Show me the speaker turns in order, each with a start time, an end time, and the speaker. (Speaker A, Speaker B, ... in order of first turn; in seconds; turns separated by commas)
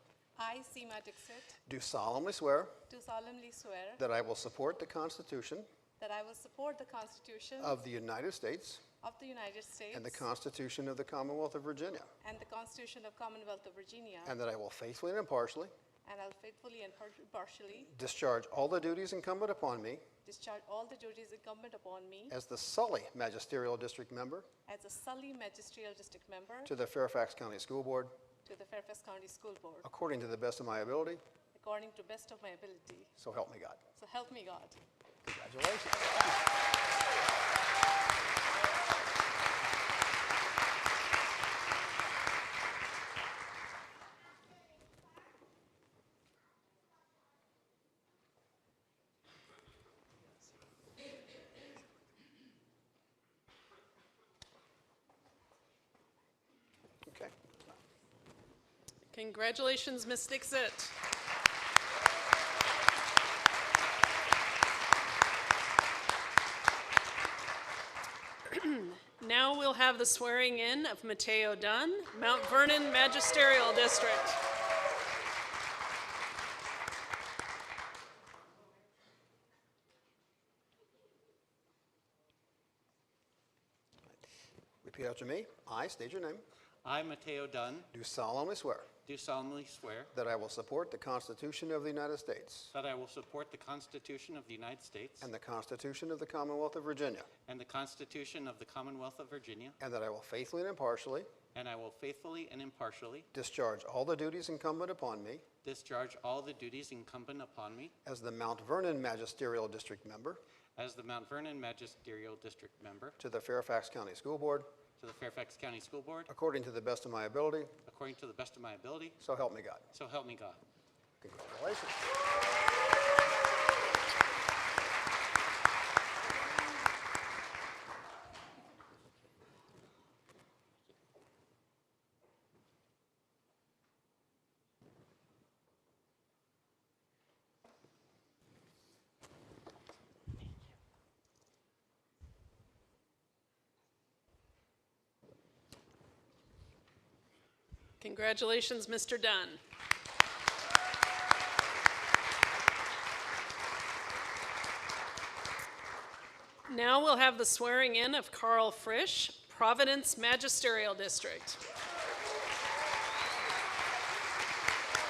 Speaker A: 0.3-1.6, Speaker B: 1.6-2.7, Speaker A: 2.9-4.0, Speaker B: 4.0-5.7, Speaker A: 6.0-7.8, Speaker B: 7.6-8.8, Speaker A: 9.0-10.2, Speaker B: 9.9-12.1, Speaker A: 12.2-14.3, Speaker B: 14.2-15.7, Speaker A: 16.0-17.9, Speaker B: 17.8-20.0, Speaker A: 20.2-22.3, Speaker B: 22.3-24.5, Speaker A: 24.7-26.7, Speaker B: 26.6-28.1, Speaker A: 28.4-29.9, Speaker B: 29.8-31.2, Speaker A: 31.5-33.1, Speaker B: 33.2-33.8, Speaker A: 33.9-34.8, Speaker B: 35.2-36.4, Speaker B: 57.0-57.3, Speaker C: 59.1-60.9, Speaker C: 68.5-74.4, Speaker B: 84.8-86.4, Speaker D: 86.8-87.9, Speaker B: 87.9-88.9, Speaker D: 89.0-90.1, Speaker B: 90.1-92.7, Speaker D: 92.7-95.3, Speaker B: 95.2-97.3, Speaker D: 97.5-99.8, Speaker B: 99.8-101.3, Speaker D: 101.5-103.3, Speaker B: 103.3-105.4, Speaker D: 105.6-107.9, Speaker B: 108.0-110.4, Speaker D: 110.8-113.2, Speaker B: 113.2-114.7, Speaker D: 115.0-116.3, Speaker B: 116.3-117.7, Speaker D: 117.8-119.2, Speaker B: 119.2-119.9, Speaker D: 119.9-120.6, Speaker B: 121.2-122.0, Speaker C: 148.0-149.6, Speaker C: 156.7-161.6